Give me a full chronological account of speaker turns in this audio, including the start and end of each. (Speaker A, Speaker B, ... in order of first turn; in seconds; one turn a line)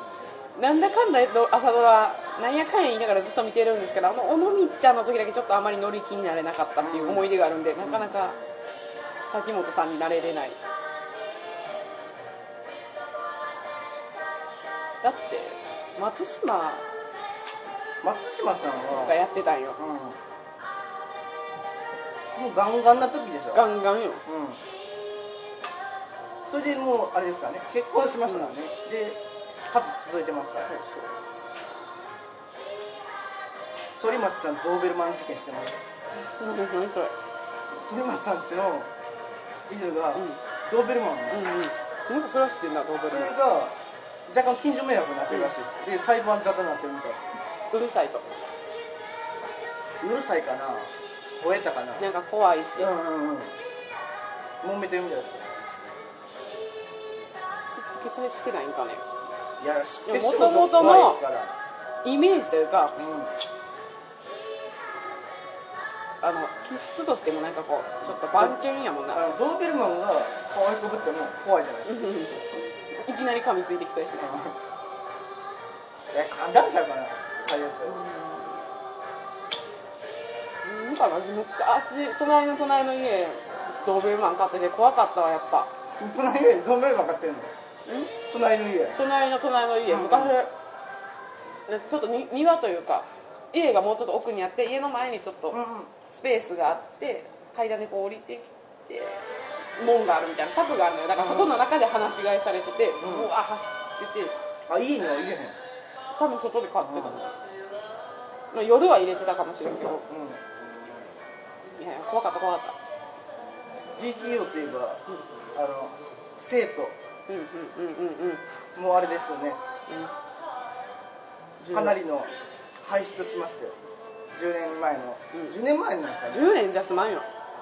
Speaker A: 0.5-8.4
Speaker B: 6.8-8.1
Speaker A: 9.3-10.6
Speaker A: 15.0-16.9
Speaker B: 18.0-19.2
Speaker A: 19.0-19.8
Speaker B: 19.8-20.2
Speaker B: 22.3-23.7
Speaker A: 23.5-24.2
Speaker B: 24.2-24.6
Speaker B: 26.4-30.8
Speaker A: 30.8-31.1
Speaker B: 33.9-35.8
Speaker A: 36.2-37.1
Speaker B: 37.7-38.9
Speaker B: 39.6-41.4
Speaker A: 40.1-40.4
Speaker A: 41.3-43.3
Speaker B: 43.1-47.3
Speaker A: 47.7-48.3
Speaker B: 50.0-52.1
Speaker A: 52.0-52.9
Speaker B: 52.8-53.5
Speaker B: 54.6-55.5
Speaker A: 57.7-59.0
Speaker B: 59.6-61.5
Speaker A: 60.0-61.2
Speaker A: 62.0-63.0
Speaker B: 63.0-63.3
Speaker A: 66.2-69.3
Speaker B: 68.3-68.6
Speaker B: 69.1-72.1
Speaker A: 71.8-74.4
Speaker B: 74.2-74.6
Speaker B: 76.1-78.0
Speaker A: 77.9-78.6
Speaker A: 80.6-85.7
Speaker B: 86.0-87.5
Speaker A: 87.8-88.1
Speaker B: 88.3-89.0
Speaker A: 88.9-90.5
Speaker B: 89.9-90.4
Speaker A: 91.7-99.2
Speaker B: 95.5-95.9
Speaker A: 99.8-104.4
Speaker B: 101.2-101.6
Speaker B: 103.0-103.3
Speaker B: 104.7-105.5
Speaker A: 106.1-107.3
Speaker B: 106.8-107.2
Speaker A: 108.5-110.0
Speaker B: 110.1-110.4
Speaker A: 111.7-112.8
Speaker B: 113.9-115.0
Speaker B: 115.5-116.9
Speaker A: 117.3-118.4
Speaker B: 118.7-119.6
Speaker A: 119.9-120.1
Speaker A: 121.6-122.0
Speaker B: 121.7-123.7
Speaker B: 124.3-126.5
Speaker A: 126.3-127.3